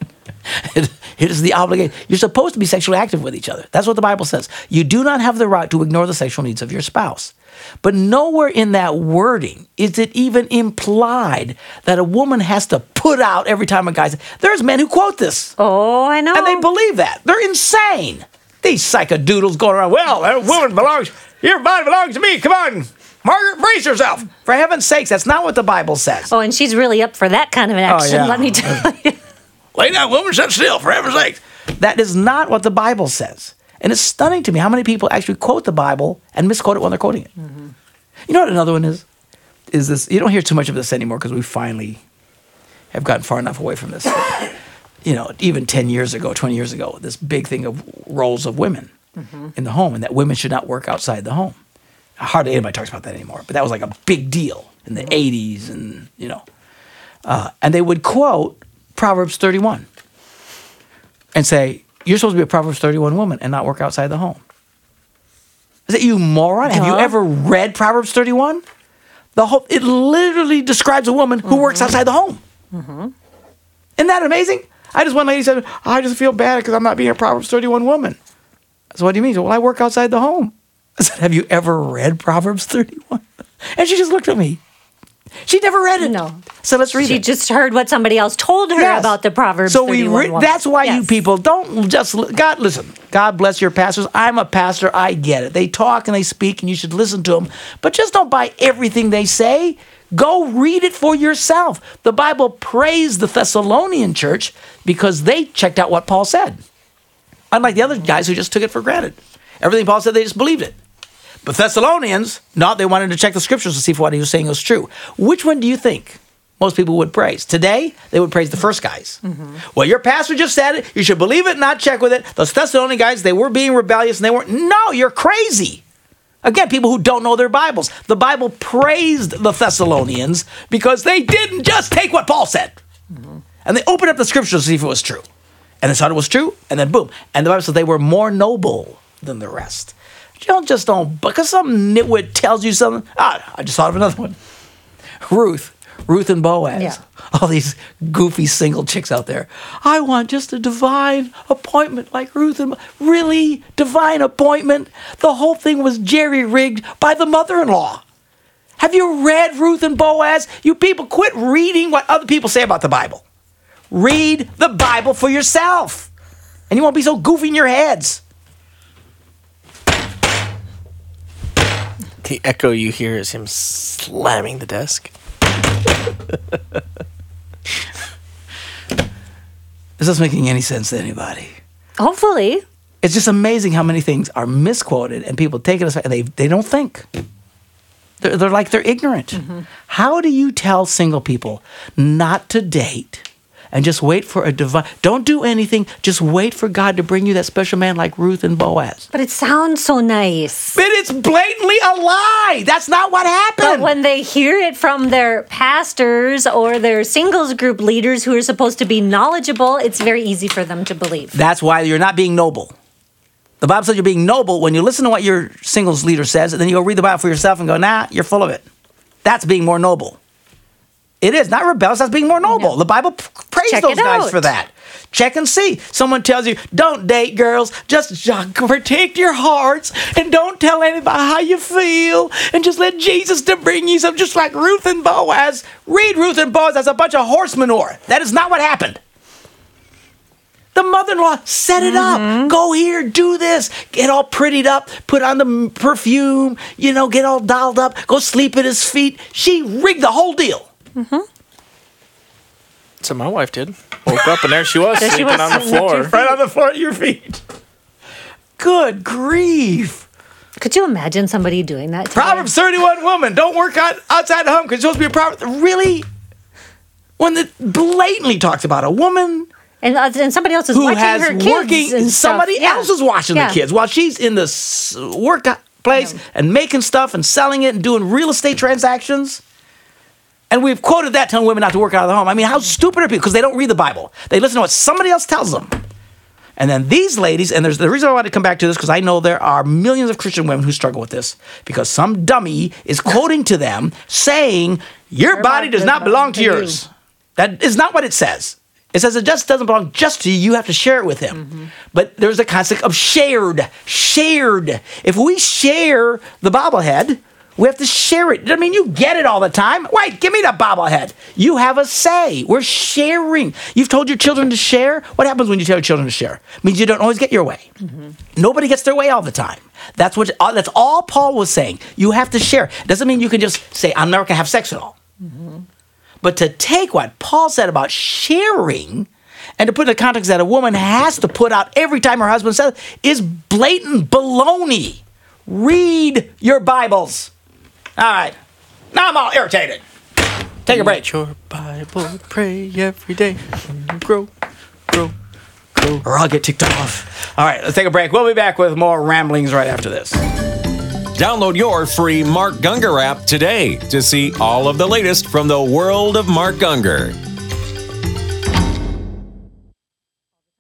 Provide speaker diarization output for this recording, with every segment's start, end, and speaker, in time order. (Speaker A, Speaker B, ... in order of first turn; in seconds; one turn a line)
Speaker A: 0.5-15.5
Speaker B: 15.6-16.6
Speaker A: 16.3-26.3
Speaker B: 26.3-29.2
Speaker A: 27.9-28.9
Speaker A: 29.8-37.3
Speaker B: 37.4-37.7
Speaker A: 38.3-39.0
Speaker A: 39.7-42.0
Speaker A: 42.9-48.9
Speaker B: 49.2-49.5
Speaker A: 49.5-51.6
Speaker A: 52.2-56.4
Speaker A: 57.3-59.9
Speaker A: 61.3-64.4
Speaker A: 65.9-68.6
Speaker B: 66.7-67.2
Speaker A: 69.4-72.4
Speaker B: 71.5-72.0
Speaker B: 72.7-73.1
Speaker A: 74.0-78.2
Speaker A: 78.9-84.6
Speaker A: 85.5-87.2
Speaker B: 86.0-86.4
Speaker B: 87.0-91.1
Speaker A: 88.8-89.2
Speaker A: 89.7-106.6
Speaker A: 107.5-110.8
Speaker A: 111.4-125.8
Speaker B: 119.2-119.6
Speaker A: 126.4-132.8
Speaker A: 133.7-135.2
Speaker A: 135.8-144.4
Speaker A: 145.2-158.0
Speaker A: 158.8-163.2
Speaker A: 163.9-166.1
Speaker A: 166.7-168.2
Speaker C: 172.2-175.1
Speaker A: 180.0-181.6
Speaker B: 182.0-182.6
Speaker A: 183.0-187.1
Speaker A: 188.2-199.1
Speaker B: 189.4-189.6
Speaker B: 199.1-200.8
Speaker A: 200.8-203.9
Speaker B: 203.6-211.4
Speaker A: 211.3-212.8
Speaker A: 213.6-218.7
Speaker A: 219.2-220.2
Speaker A: 221.2-239.0
Speaker B: 223.7-224.5
Speaker A: 240.7-250.7
Speaker B: 241.8-242.5
Speaker B: 251.0-251.3
Speaker C: 253.0-256.1
Speaker B: 255.0-256.4
Speaker A: 255.1-257.4
Speaker A: 258.6-260.1
Speaker B: 260.6-262.5
Speaker A: 262.1-266.1
Speaker A: 267.2-269.5
Speaker B: 269.8-273.6
Speaker A: 270.7-279.4
Speaker A: 280.5-285.8
Speaker A: 286.6-317.7
Speaker B: 295.3-296.8
Speaker B: 301.4-301.7
Speaker A: 318.4-324.9
Speaker B: 325.2-325.6
Speaker A: 326.2-337.3
Speaker A: 338.0-338.4
Speaker A: 338.9-339.8
Speaker A: 340.7-341.1
Speaker C: 340.7-344.3
Speaker C: 345.8-346.0
Speaker A: 346.0-350.3
Speaker D: 351.1-357.2